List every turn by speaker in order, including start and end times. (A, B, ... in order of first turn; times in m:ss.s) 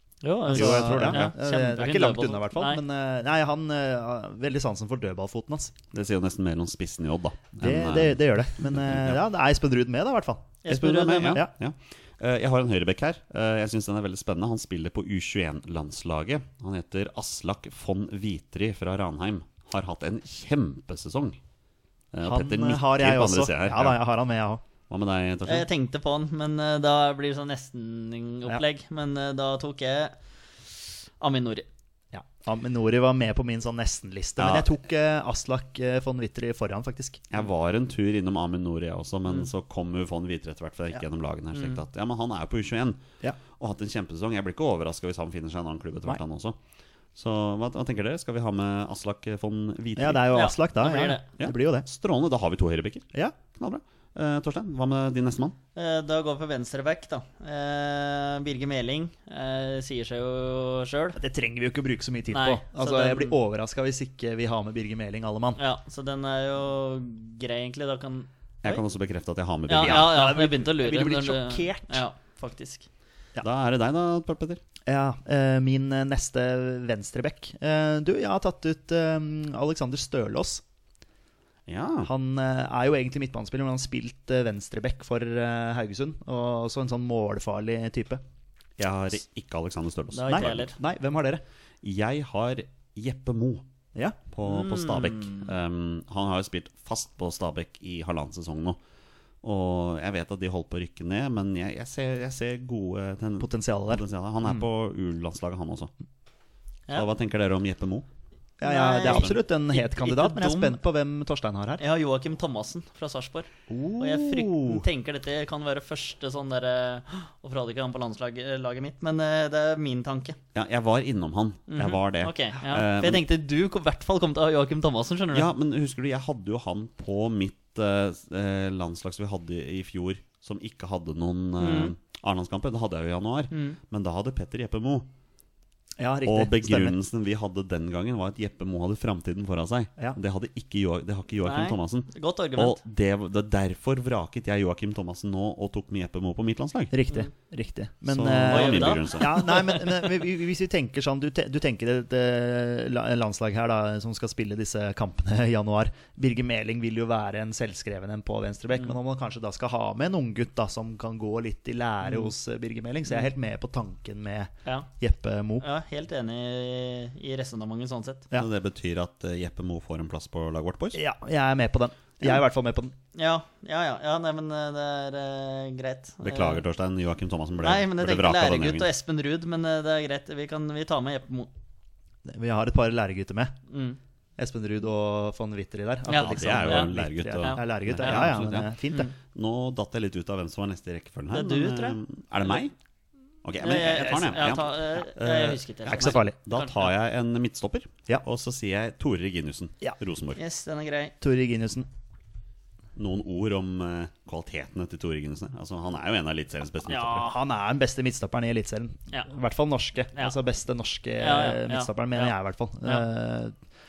0:00.2-0:02.8 A
0:00.4-0:05.9 B
0:00.5-0:01.3 C
0:05.9-0:09.2 C
0:07.6-0:11.5 B
0:10.6-0:11.4 A
0:10.7-0:21.4 C
0:22.1-0:24.0 C
0:22.2-0:24.6 B
0:24.9-0:25.7 C
0:25.4-0:31.6 A
0:32.1-0:37.2 B
0:34.4-0:34.7 C
0:37.3-0:46.6 C
0:41.5-0:41.8 A
0:47.1-0:50.2 C
0:50.0-0:51.8 B
0:50.3-0:51.2 A
0:51.4-0:55.6 C
0:55.7-1:01.2 A
1:01.2-1:05.6 B
1:02.3-1:03.4 A
1:05.6-1:08.8 A
1:08.6-1:10.2 C
1:09.7-1:12.9 A
1:09.8-1:12.0 B
1:13.4-1:14.6 C
1:14.9-1:20.6 B
1:21.7-1:22.1 C
1:22.0-1:28.2 B
1:28.8-1:30.6 C
1:30.1-1:30.7 A
1:30.3-1:31.4 B
1:31.8-1:33.6 C
1:34.3-1:38.8 C
1:34.4-1:35.5 A
1:39.4-1:45.9 C
1:43.4-1:44.6 B
1:46.9-1:48.1 C
1:48.6-1:51.8 B
1:48.6-1:50.8 A
1:49.0-1:49.4 C
1:51.8-2:00.4 A
1:53.7-1:54.8 B
2:00.5-2:03.2 C
2:01.7-2:05.5 A
2:05.3-2:15.1 C
2:11.6-2:11.9 A
2:13.5-2:13.8 A
2:16.0-2:17.0 B
2:16.2-2:26.9 C
2:21.4-2:22.8 A
2:26.9-2:45.6 B
2:28.1-2:29.3 C
2:28.5-2:30.1 A
2:42.0-2:42.3 A
2:45.6-2:48.2 A
2:48.4-2:51.0 C
2:50.9-2:52.9 B
2:53.1-2:56.6 A
2:56.2-2:58.9 C
2:57.6-3:01.5 A
3:02.2-3:03.6 B
3:03.7-3:04.0 A
3:04.4-3:09.1 B
3:06.1-3:06.9 A
3:06.1-3:12.7 C
3:07.4-3:08.4 A
3:11.3-3:12.6 A
3:13.4-3:20.4 C
3:13.6-3:16.9 A
3:15.9-3:16.4 B
3:20.4-3:21.1 A
3:21.2-3:21.8 B
3:23.0-3:27.3 C
3:26.8-3:27.3 A
3:27.1-3:33.5 B
3:31.2-3:32.3 A